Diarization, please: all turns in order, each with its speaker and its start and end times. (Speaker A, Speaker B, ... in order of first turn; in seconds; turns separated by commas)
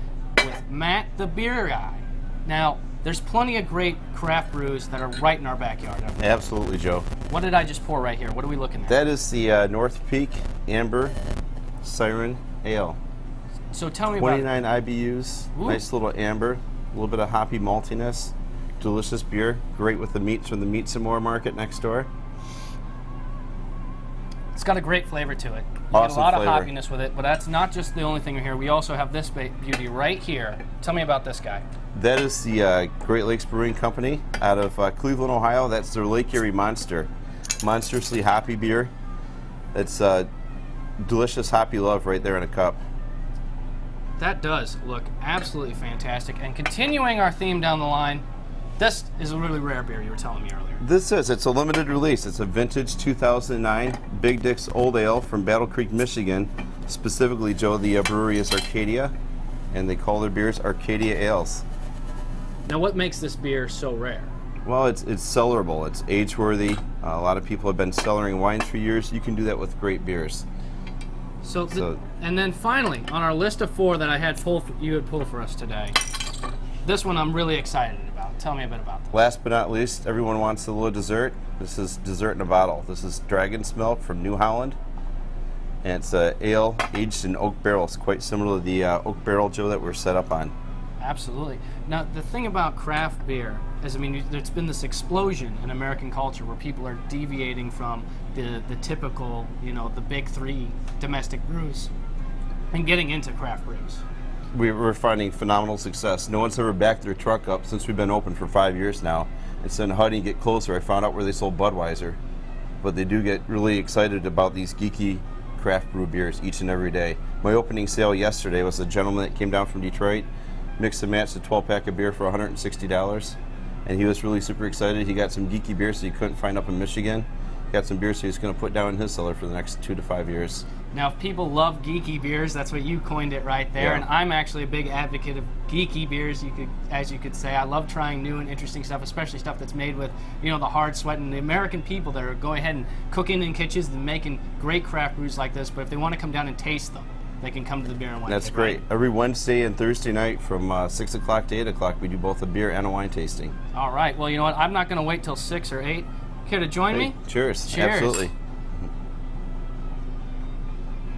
Speaker A: 0.4-6.2, Speaker B: 6.2-7.1, Speaker A: 7.3-9.0, Speaker B: 8.9-11.1, Speaker B: 11.8-13.0, Speaker A: 13.7-14.5, Speaker B: 14.2-22.1, Speaker A: 15.5-15.8, Speaker A: 24.5-31.6, Speaker B: 25.9-26.7, Speaker B: 31.9-37.1, Speaker B: 37.6-38.9, Speaker B: 39.7-40.3, Speaker B: 41.0-42.8, Speaker A: 44.2-48.2, Speaker A: 48.8-50.8, Speaker B: 50.8-59.1, Speaker B: 59.7-61.6, Speaker A: 62.6-64.3, Speaker B: 64.6-70.4, Speaker A: 71.4-76.0, Speaker B: 71.7-72.0, Speaker A: 76.8-79.1, Speaker B: 79.1-84.8, Speaker B: 85.8-90.5, Speaker A: 91.0-101.9, Speaker A: 102.7-104.0, Speaker B: 104.5-112.2, Speaker B: 112.8-130.6, Speaker A: 130.9-148.8, Speaker B: 133.8-134.1, Speaker B: 148.3-153.5, Speaker A: 153.7-158.2, Speaker B: 156.9-158.3